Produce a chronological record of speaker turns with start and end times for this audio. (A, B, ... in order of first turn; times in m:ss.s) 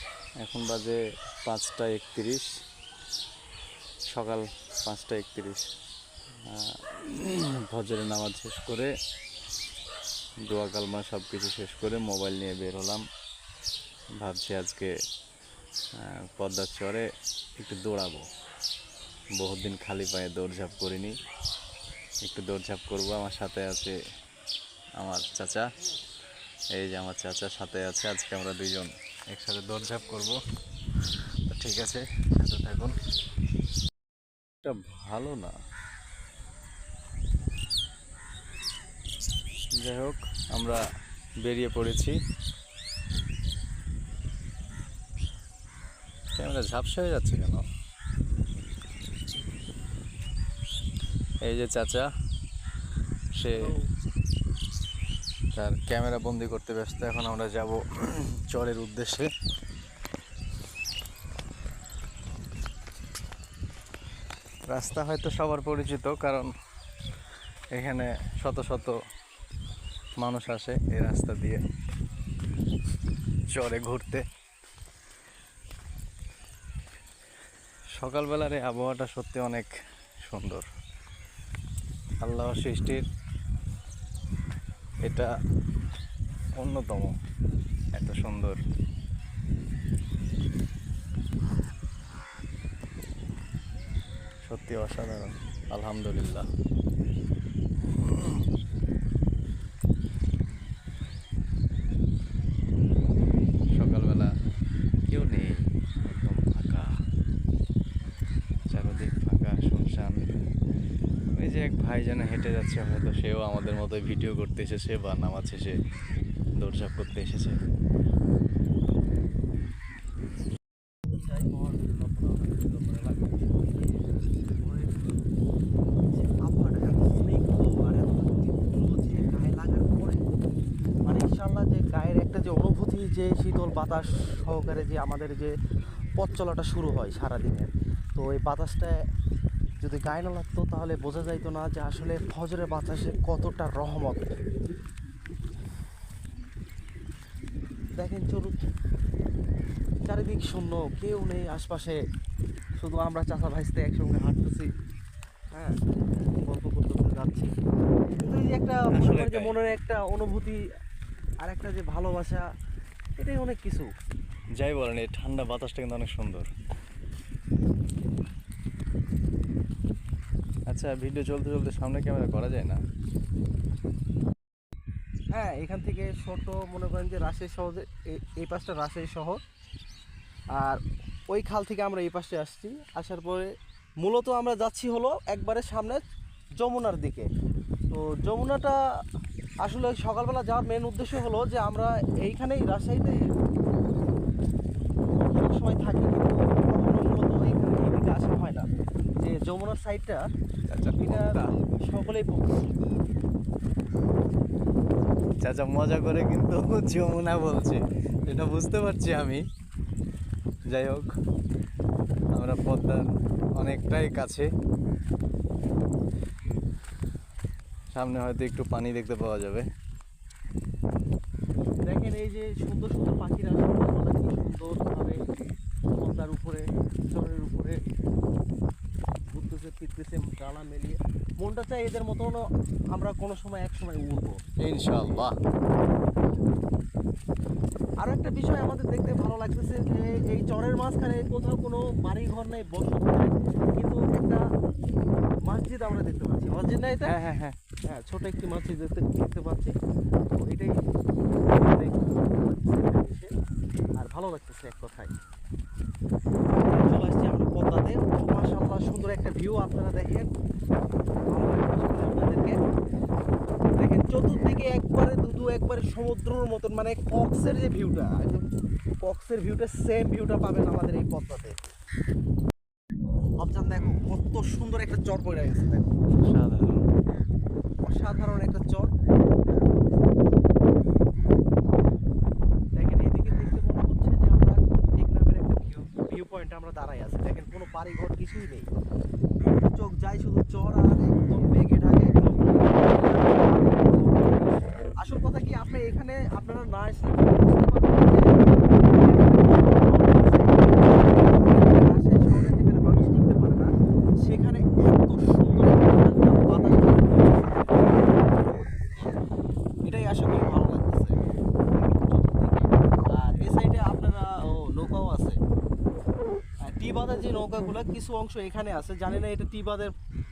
0:00.4-0:02.5 A
0:04.1-0:05.6 A
0:06.5-0:08.9 A
0:10.4-0:13.0 A
0:14.2-0:14.9 A
0:16.0-0:17.0 A
0:17.6-0:18.2 A
0:19.4-0:21.1 A
0:22.2-0:24.0 A
0:25.0-0:25.6 A
0:26.8-0:30.4 A
0:31.5-0:32.9 A
0:34.6-0:35.5 A
0:39.8-0:40.8 A
0:41.4-0:42.1 A
0:46.3-0:47.6 A
0:51.4-0:52.1 A
0:53.4-0:53.7 A
0:53.5-0:53.8 B
0:55.5-0:59.3 A
1:04.7-1:06.5 A
1:07.8-1:09.0 A
1:10.2-1:11.6 A
1:13.5-1:14.2 A
1:18.0-1:19.7 A
1:20.3-1:20.6 A
1:22.2-1:23.0 A
1:25.0-1:25.3 A
1:26.6-1:27.1 A
1:27.9-1:28.6 A
1:34.4-1:36.5 A
1:37.9-1:38.4 A
1:43.8-1:44.3 A
1:45.1-1:46.9 A
1:48.7-1:50.2 A
1:51.4-1:55.8 A
1:56.6-1:57.6 A
2:01.1-2:03.9 B
2:04.5-2:05.1 B
2:06.1-2:10.2 B
2:11.0-2:15.5 B
2:16.2-2:19.0 B
2:19.8-2:24.4 B
2:28.0-2:28.6 B
2:30.1-2:32.0 B
2:32.8-2:34.7 B
2:36.4-2:37.5 B
2:38.2-2:40.6 B
2:38.9-2:39.6 A
2:41.4-2:42.4 B
2:43.2-2:43.9 B
2:44.6-2:46.5 A
2:50.7-2:52.8 A
2:55.3-2:59.4 B
3:00.6-3:03.5 B
3:04.0-3:06.0 B
3:06.6-3:07.3 B
3:07.9-3:08.8 B
3:09.6-3:13.2 B
3:15.2-3:18.6 B
3:19.2-3:20.2 B
3:20.7-3:21.6 A
3:21.0-3:22.6 B
3:25.4-3:29.4 A
3:30.7-3:31.1 A
3:32.3-3:33.0 A
3:33.6-3:34.5 A
3:37.9-3:39.7 A
3:41.9-3:45.2 B
3:46.0-3:47.8 B
3:49.3-3:52.4 B
3:52.9-3:54.4 B
3:54.6-3:55.3 A
3:58.0-4:04.4 B
4:05.5-4:07.1 B
4:07.0-4:07.5 A
4:07.9-4:09.7 B
4:10.4-4:10.8 B
4:11.5-4:13.3 B
4:14.0-4:15.1 B
4:16.6-4:20.3 B
4:21.3-4:22.6 B
4:23.8-4:28.4 B
4:29.0-4:31.6 B
4:33.4-4:35.9 B
4:36.2-4:36.8 A
4:37.8-4:38.9 B
4:42.8-4:48.7 B
4:49.7-4:58.2 B
4:58.9-5:03.7 B
5:04.2-5:08.7 B
5:09.8-5:11.1 B
5:11.8-5:15.4 B
5:16.6-5:19.9 B